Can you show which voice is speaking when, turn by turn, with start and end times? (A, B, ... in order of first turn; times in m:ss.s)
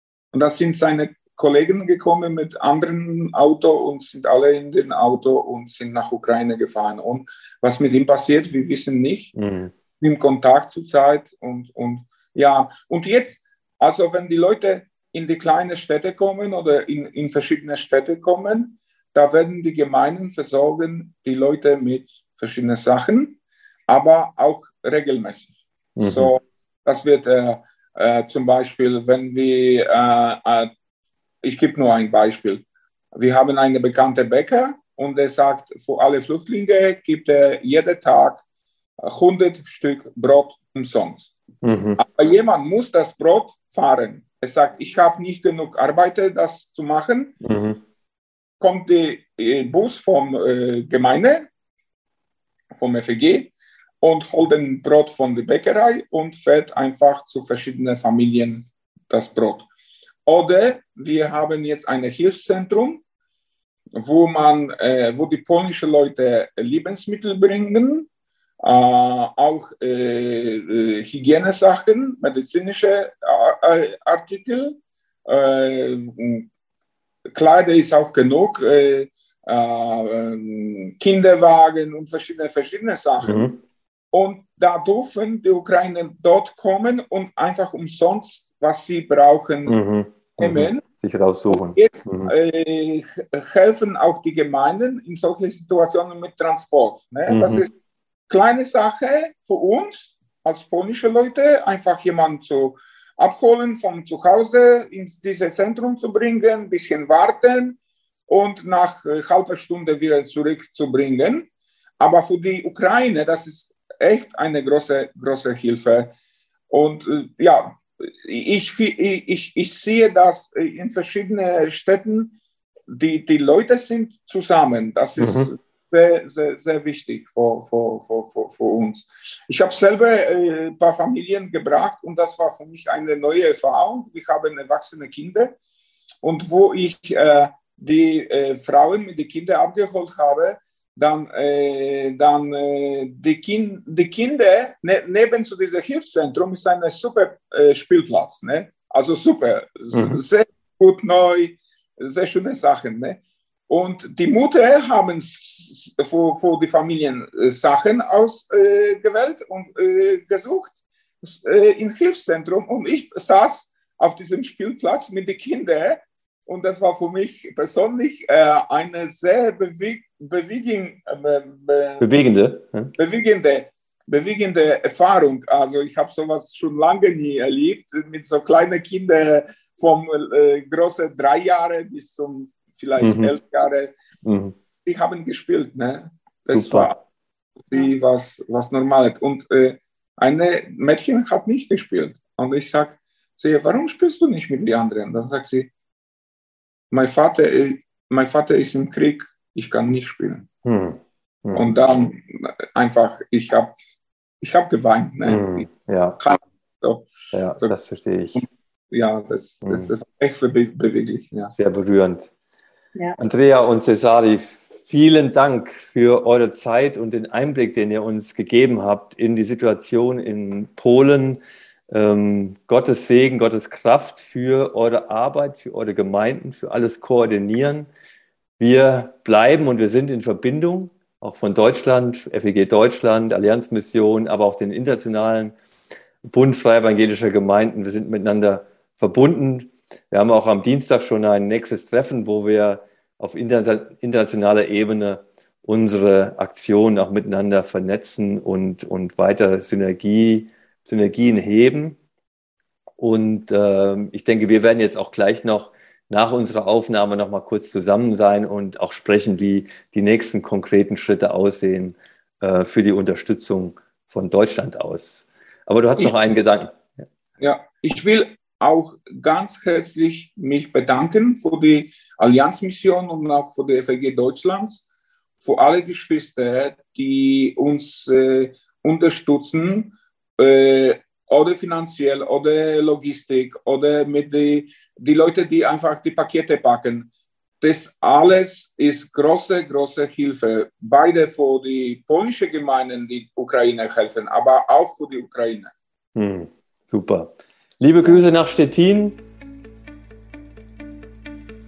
0:00.3-0:09.3 A
0:09.4-0:09.7 B
0:10.0-0:30.7 A
0:26.0-0:26.3 B
0:31.4-0:32.6 A
0:33.2-0:38.4 A
0:39.0-0:41.3 A
0:41.6-0:42.0 B
0:42.0-0:47.4 A
0:47.4-0:47.8 B
0:48.6-0:51.5 A
0:52.8-0:59.7 A
1:00.2-1:03.0 A
1:04.0-1:08.1 A
1:08.6-1:16.5 A
1:17.3-1:23.5 A
1:23.2-1:23.6 B
1:24.1-1:29.8 A
1:29.6-1:32.3 B
1:30.4-1:30.8 A
1:31.5-1:37.7 A
1:37.3-1:37.6 B
1:38.3-1:51.5 A
1:52.0-1:56.1 A
1:56.7-2:02.3 A
2:02.9-2:15.5 A
2:05.2-2:05.5 B
2:16.2-2:52.1 A
2:29.9-2:30.2 B
2:52.0-2:52.9 B
2:52.9-3:03.9 A
3:03.0-3:03.4 B
3:04.2-3:04.5 B
3:04.8-3:07.0 A
3:06.5-3:06.9 B
3:07.6-3:15.7 A
3:16.9-3:20.4 A
3:20.6-3:21.7 B
3:21.5-3:23.8 A
3:24.4-3:25.7 A
3:25.3-3:26.2 B
3:26.2-3:27.7 A
3:27.3-3:28.4 B
3:28.3-3:31.5 A
3:29.6-3:29.9 B
3:31.6-3:32.3 B
3:33.2-3:47.9 B
3:48.6-3:55.5 B
3:56.3-4:12.0 B
4:13.0-4:26.8 B
4:27.4-4:34.8 A
4:35.4-4:47.1 A
4:47.6-4:55.7 A
4:56.2-4:59.2 B